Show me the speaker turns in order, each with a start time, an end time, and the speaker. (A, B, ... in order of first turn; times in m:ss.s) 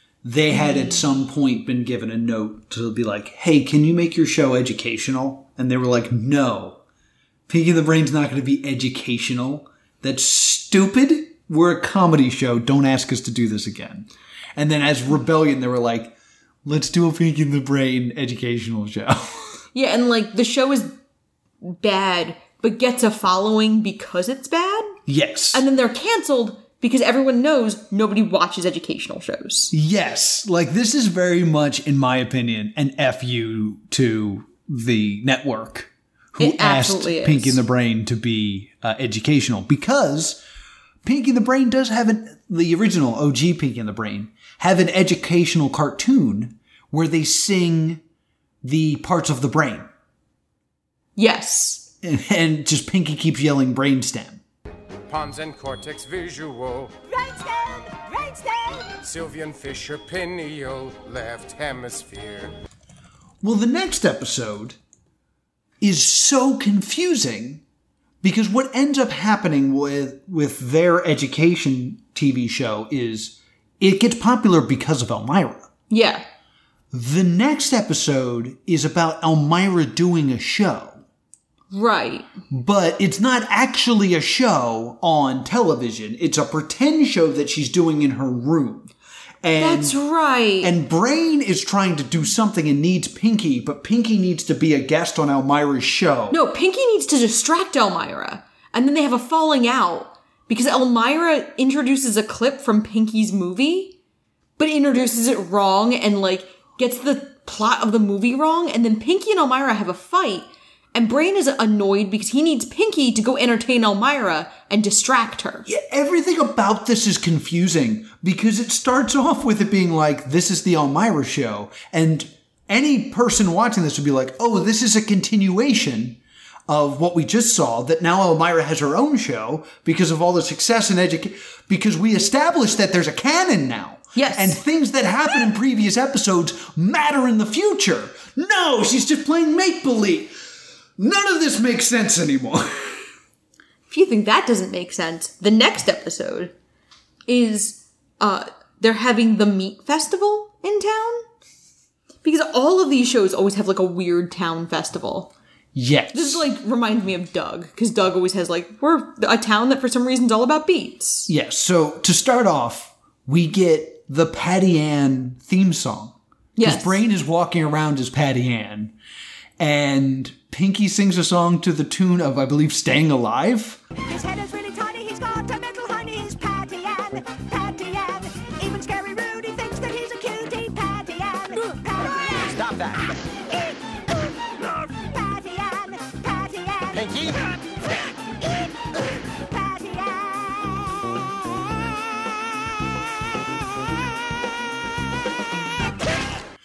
0:00.2-0:06.8 A
0:07.5-0:16.1 A
0:16.6-0:19.5 A
0:19.7-0:20.9 B
0:21.6-0:25.0 B
0:25.1-0:25.6 A
0:25.5-0:29.7 B
0:29.7-0:40.4 A
0:36.4-0:37.6 B
0:41.0-0:48.0 A
0:48.6-0:49.9 A
0:51.2-0:51.8 B
0:52.0-0:54.4 A
0:55.1-0:57.0 C
0:57.1-0:59.0 D
0:59.0-1:02.6 C
1:03.4-1:04.8 A
1:05.8-1:07.6 A
1:08.2-1:15.7 A
1:15.9-1:16.2 B
1:16.9-1:21.0 A
1:21.7-1:22.3 B
1:22.5-1:28.9 A
1:29.4-1:30.0 A
1:29.6-1:30.7 B
1:30.6-1:36.4 A
1:36.3-1:44.0 B
1:44.6-1:55.7 B
1:55.7-2:20.3 A
2:14.2-2:14.6 B
2:21.0-2:23.1 A
2:23.9-2:26.5 B
2:27.3-2:31.2 B
2:32.2-2:35.3 B
2:35.8-2:36.4 A
2:36.1-2:41.3 B
2:41.3-2:48.9 A
2:46.6-2:47.0 B
2:49.6-2:53.8 A
2:54.0-3:02.9 D
3:03.5-3:07.4 D
3:07.0-3:07.2 C
3:08.4-3:10.8 D